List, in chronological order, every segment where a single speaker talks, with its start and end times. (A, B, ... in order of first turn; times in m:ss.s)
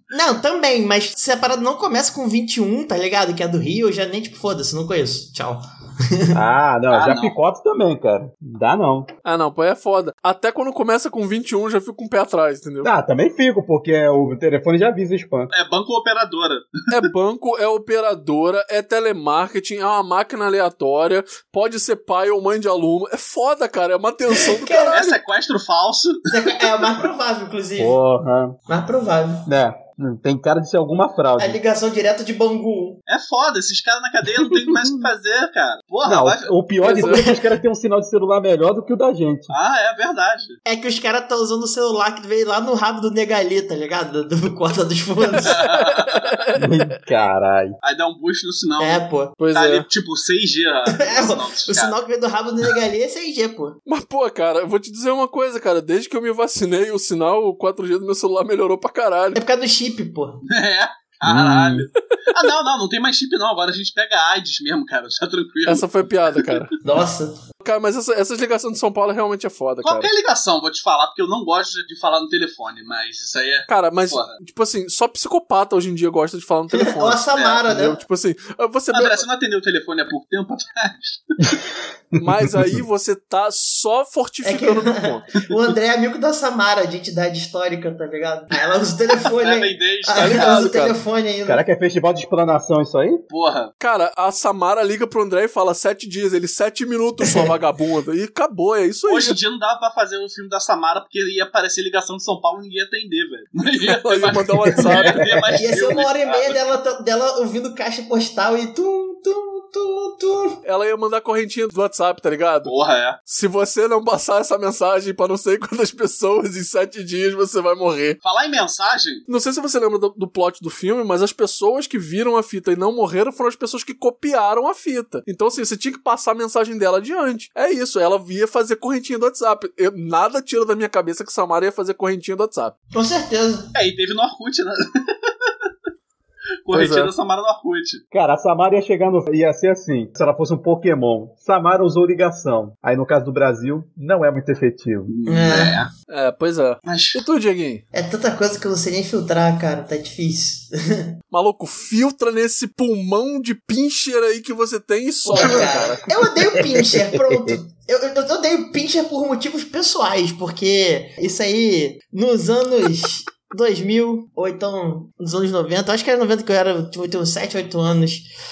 0:00.1-0:06.4 A
0:06.3-0:09.1 B
0:06.9-0:07.3 C
0:09.2-0:12.9 D
0:12.8-0:15.5 B
0:15.5-0:16.7 C
0:16.9-0:25.1 D
0:24.4-0:25.1 A
0:24.9-0:26.9 C
0:26.3-0:28.0 A
0:27.8-0:28.6 B
0:28.7-0:29.5 A
0:29.5-0:31.6 B
0:31.4-0:33.0 A
0:33.1-0:36.5 C
0:34.5-0:35.0 B
0:36.0-0:39.5 B
0:36.8-0:37.2 D
0:36.8-0:37.4 A
0:39.5-0:40.6 C
0:40.6-0:45.6 A
0:45.4-0:46.2 C
0:45.4-0:46.7 D
0:46.6-0:47.8 B
0:47.8-0:52.0 C
0:48.8-0:49.4 A
0:49.4-0:49.8 D
0:50.9-0:53.8 A
0:53.9-0:59.4 D
0:59.3-1:00.4 A
1:00.5-1:06.6 C
1:01.2-1:01.9 B
1:05.6-1:06.7 D
1:06.8-1:07.4 A
1:07.6-1:10.1 D
1:09.8-1:14.3 C
1:13.7-1:19.2 D
1:16.7-1:18.0 A
1:17.3-1:17.6 C
1:18.9-1:21.5 C
1:22.1-1:22.8 B
1:22.2-1:25.3 D
1:24.4-1:31.6 A
1:29.2-1:30.7 C
1:30.1-1:31.0 D
1:31.4-1:33.2 B
1:33.3-1:33.7 C
1:33.8-1:39.4 D
1:37.2-1:37.5 A
1:39.1-1:46.7 C
1:43.7-1:45.3 D
1:45.5-1:50.6 A
1:50.6-1:52.7 D
1:52.6-1:53.2 C
1:53.2-1:58.2 D
1:58.2-1:59.2 C
1:59.3-2:12.7 D
2:12.9-2:13.7 A
2:13.7-2:15.5 C
2:16.6-2:18.0 C
2:16.7-2:17.1 D
2:18.1-2:25.1 B
2:25.1-2:25.9 C
2:25.2-2:25.8 A
2:26.1-2:27.8 D
2:26.8-2:27.2 C
2:27.9-2:31.1 A
2:31.3-2:36.0 D
2:35.2-2:48.3 A
2:35.4-2:35.7 B
2:36.4-2:37.6 B